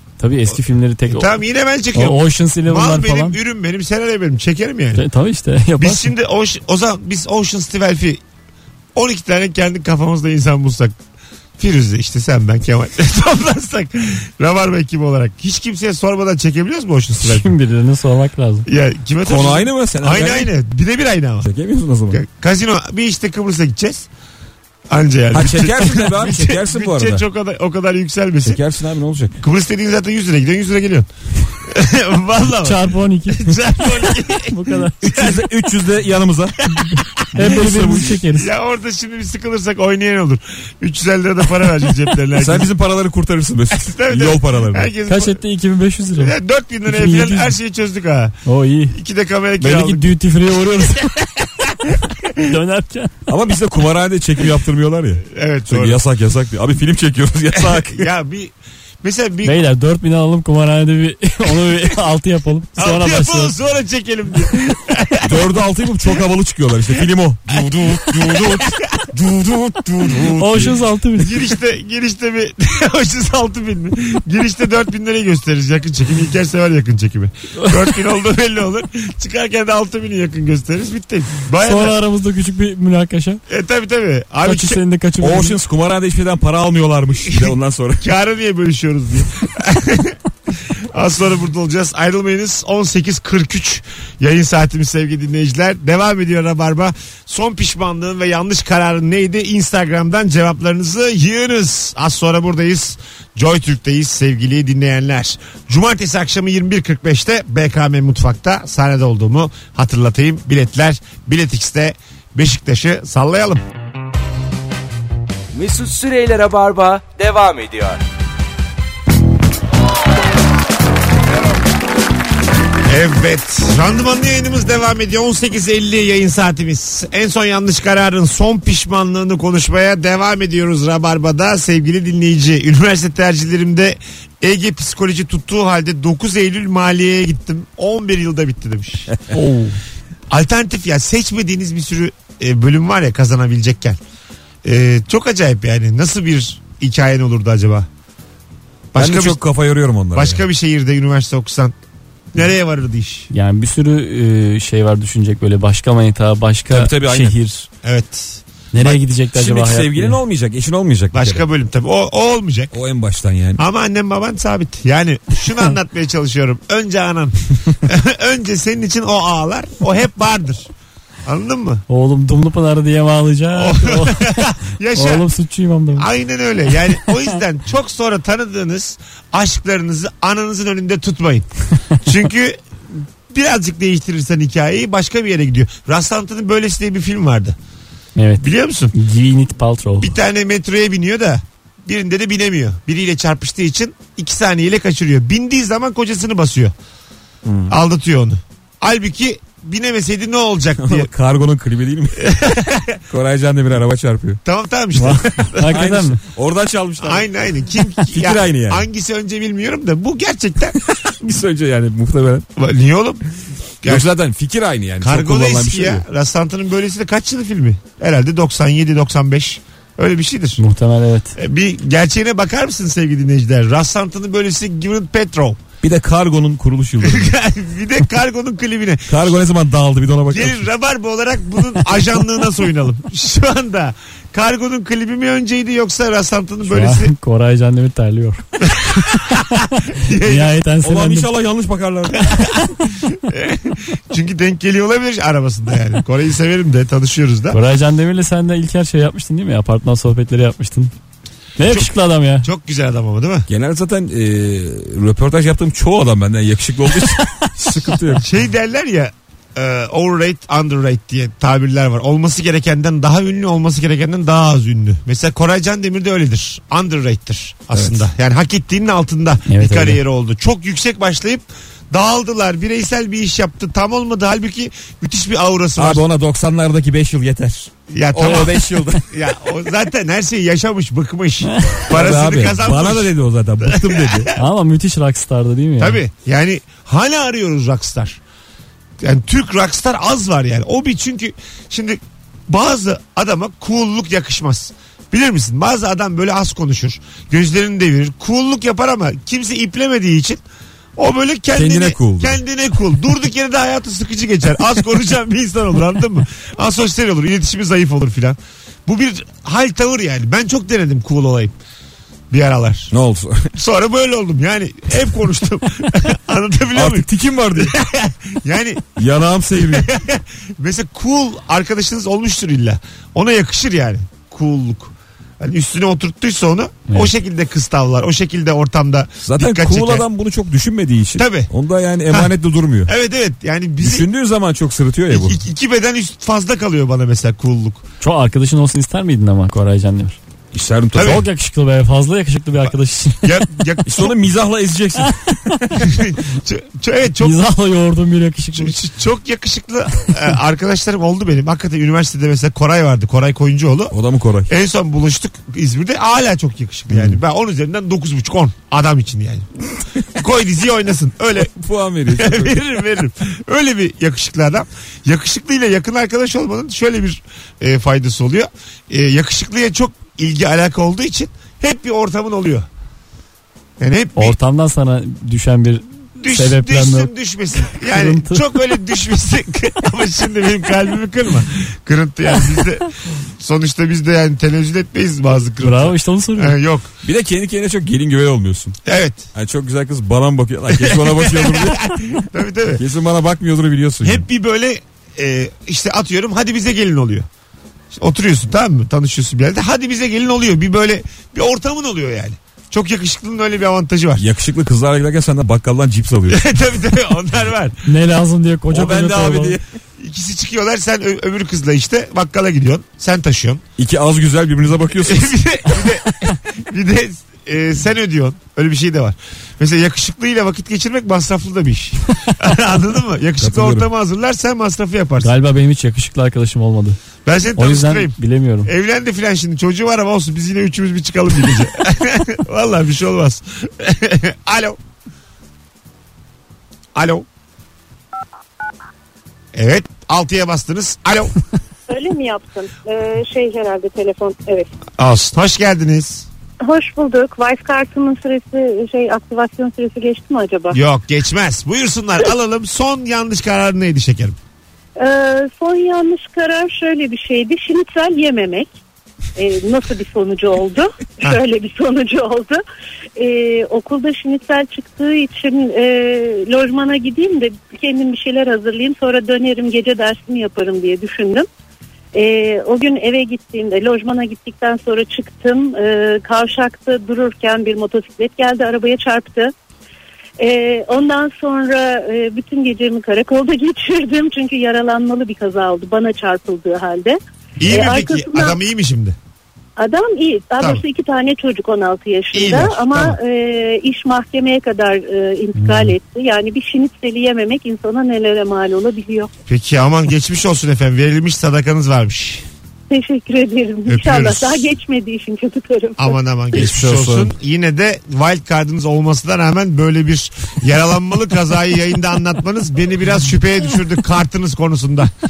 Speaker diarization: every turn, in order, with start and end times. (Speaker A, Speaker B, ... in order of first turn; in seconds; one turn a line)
Speaker A: 0.2-1.3
Speaker B: 1.1-5.0
Speaker A: 1.9-3.4
Speaker A: 4.9-6.1
Speaker B: 5.8-8.2
Speaker B: 8.9-11.0
Speaker B: 11.6-17.5
Speaker A: 17.2-18.7
Speaker B: 18.7-21.5
Speaker C: 19.2-20.5
Speaker C: 21.4-22.2
Speaker B: 22.1-24.1
Speaker B: 24.9-28.6
Speaker C: 25.3-27.2
Speaker C: 28.4-29.3
Speaker B: 29.4-31.1
Speaker B: 31.6-35.4
Speaker A: 32.5-35.1
Speaker C: 35.0-36.6
Speaker A: 36.9-38.5
Speaker C: 37.3-38.2
Speaker B: 38.2-42.7
Speaker C: 42.4-44.9
Speaker B: 43.7-45.4
Speaker A: 45.0-47.5
Speaker B: 46.1-48.4
Speaker A: 48.4-49.0
Speaker B: 48.9-50.1
Speaker A: 49.6-51.2
Speaker B: 51.1-51.9
Speaker A: 52.4-53.2
Speaker C: 53.3-58.1
Speaker B: 55.3-56.0
Speaker B: 57.5-59.6
Speaker A: 59.4-63.5
Speaker B: 62.8-65.4
Speaker C: 65.2-68.8
Speaker B: 67.5-82.0
Speaker A: 70.3-71.4
Speaker A: 81.6-83.4
Speaker B: 83.5-84.8
Speaker A: 84.4-85.6
Speaker C: 85.2-88.1
Speaker B: 88.0-90.2
Speaker B: 90.9-113.6
Speaker D: 115.5-118.0
Speaker B: 122.8-139.2
Speaker B: 140.3-144.0
Speaker B: 144.6-147.9
Speaker B: 148.9-149.4
Speaker C: 148.9-150.4
Speaker B: 150.1-151.7
Speaker B: 152.3-153.3
Speaker A: 153.3-157.7
Speaker C: 156.7-157.3
Speaker B: 157.8-158.4
Speaker A: 158.7-160.2
Speaker C: 158.8-161.4
Speaker B: 161.1-162.7
Speaker C: 162.7-163.6
Speaker B: 163.6-170.7
Speaker B: 171.2-171.8
Speaker A: 171.9-176.1
Speaker B: 173.5-175.3
Speaker B: 175.9-181.5
Speaker B: 182.0-182.6
Speaker B: 183.3-187.6
Speaker A: 188.2-190.1
Speaker B: 188.4-188.9
Speaker B: 190.0-196.7
Speaker C: 197.5-197.7
Speaker B: 197.7-201.1
Speaker C: 200.8-202.4
Speaker B: 202.2-203.0
Speaker C: 203.1-204.4
Speaker B: 204.4-205.7
Speaker A: 205.0-206.2
Speaker C: 205.7-207.3
Speaker B: 207.0-210.9
Speaker C: 207.9-208.8
Speaker C: 211.2-212.4
Speaker B: 212.6-213.2
Speaker B: 213.8-214.1
Speaker C: 213.8-216.0
Speaker B: 215.0-220.6
Speaker A: 220.6-221.3
Speaker B: 221.3-225.6
Speaker C: 225.8-227.3
Speaker B: 227.0-229.4
Speaker C: 229.1-230.6
Speaker B: 230.3-237.1
Speaker A: 236.6-239.6
Speaker B: 238.7-239.2
Speaker B: 240.0-240.5
Speaker A: 240.2-241.3
Speaker C: 240.8-242.5
Speaker B: 243.2-247.6
Speaker A: 247.5-250.9
Speaker A: 251.6-252.4
Speaker B: 252.4-253.5
Speaker C: 253.5-258.2
Speaker A: 257.2-258.1
Speaker B: 258.2-276.0
Speaker C: 267.7-268.0
Speaker A: 269.5-270.0
Speaker C: 275.8-279.1
Speaker B: 277.9-284.3
Speaker C: 281.9-284.3
Speaker A: 284.4-286.0
Speaker B: 285.8-288.2
Speaker B: 289.0-300.4
Speaker B: 300.9-311.5
Speaker C: 301.5-302.4
Speaker B: 312.3-312.9
Speaker C: 312.9-313.5
Speaker B: 313.5-318.9
Speaker C: 316.7-317.8
Speaker C: 318.9-319.9
Speaker B: 319.6-330.1
Speaker A: 326.9-327.1
Speaker C: 329.2-332.9
Speaker B: 331.2-331.5
Speaker B: 332.9-334.1
Speaker C: 333.8-335.4
Speaker B: 335.1-337.8
Speaker A: 338.0-340.2
Speaker C: 340.5-341.2
Speaker B: 340.9-341.2
Speaker A: 341.0-343.4
Speaker B: 343.2-344.1
Speaker C: 343.8-345.1
Speaker A: 345.1-345.8
Speaker B: 345.8-347.4
Speaker A: 347.2-348.8
Speaker B: 348.5-353.9
Speaker C: 353.9-354.5
Speaker B: 354.5-359.5
Speaker B: 360.1-361.5
Speaker C: 361.5-362.6
Speaker B: 362.1-372.7
Speaker B: 373.8-374.4
Speaker A: 374.1-377.1
Speaker B: 376.2-386.9
Speaker A: 377.7-378.5
Speaker A: 385.6-386.6
Speaker C: 387.0-388.8
Speaker B: 388.9-389.3
Speaker C: 389.3-391.9
Speaker B: 390.7-392.8
Speaker C: 392.8-394.2
Speaker B: 394.0-397.3
Speaker B: 397.9-404.2
Speaker C: 404.2-406.4
Speaker B: 406.3-407.8
Speaker A: 407.9-409.6
Speaker C: 408.7-409.6
Speaker B: 410.0-413.6
Speaker C: 413.8-415.8
Speaker B: 415.0-425.3
Speaker C: 423.4-423.9
Speaker A: 425.2-427.0
Speaker B: 427.2-434.8
Speaker A: 427.6-428.7
Speaker B: 436.9-437.2
Speaker B: 439.5-441.3
Speaker E: 441.9-444.7
Speaker B: 445.0-446.3
Speaker E: 446.6-450.8
Speaker B: 450.7-454.4
Speaker E: 455.0-458.7
Speaker E: 459.4-462.6
Speaker E: 463.1-471.5
Speaker E: 472.1-479.5
Speaker E: 480.4-488.6
Speaker B: 487.6-489.1
Speaker E: 489.8-499.3
Speaker B: 490.6-490.8
Speaker B: 492.3-493.1
Speaker A: 495.6-495.9
Speaker B: 499.5-502.4
Speaker E: 502.9-506.2
Speaker B: 503.9-504.7
Speaker B: 506.0-515.1
Speaker C: 506.5-507.3